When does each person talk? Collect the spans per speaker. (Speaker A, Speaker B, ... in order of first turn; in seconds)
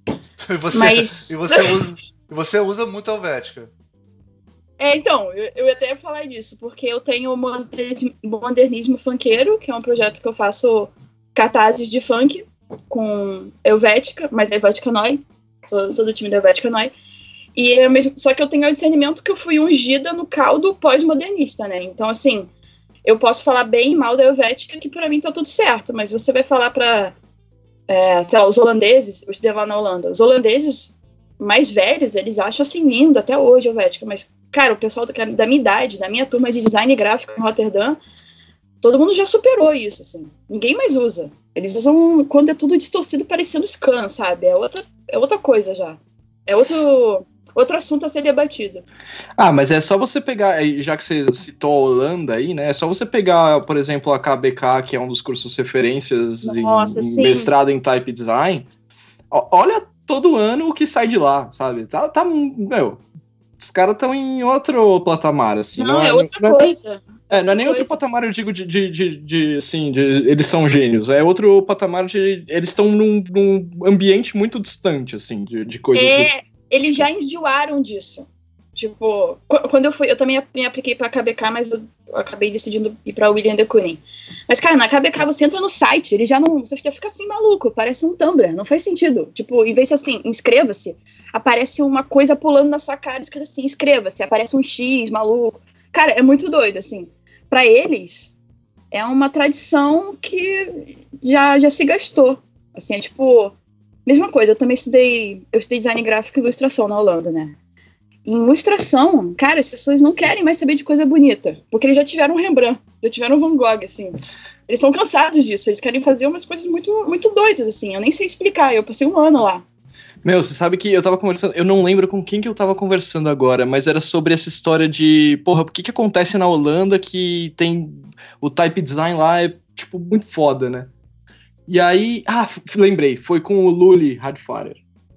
Speaker A: 0.5-3.7
Speaker B: 0.7-1.8, 4.8-16.9, 17.6-22.5, 23.0-27.1, 27.9-38.0, 38.8-48.8, 56.4-57.5, 65.8-68.0, 75.9-98.3, 98.9-103.5, 104.0-107.5, 108.2-114.1, 114.7-119.6
Speaker C: 49.4-58.7, 59.3-63.0, 63.6-66.7, 67.3-76.3, 120.2-130.9, 131.7-134.8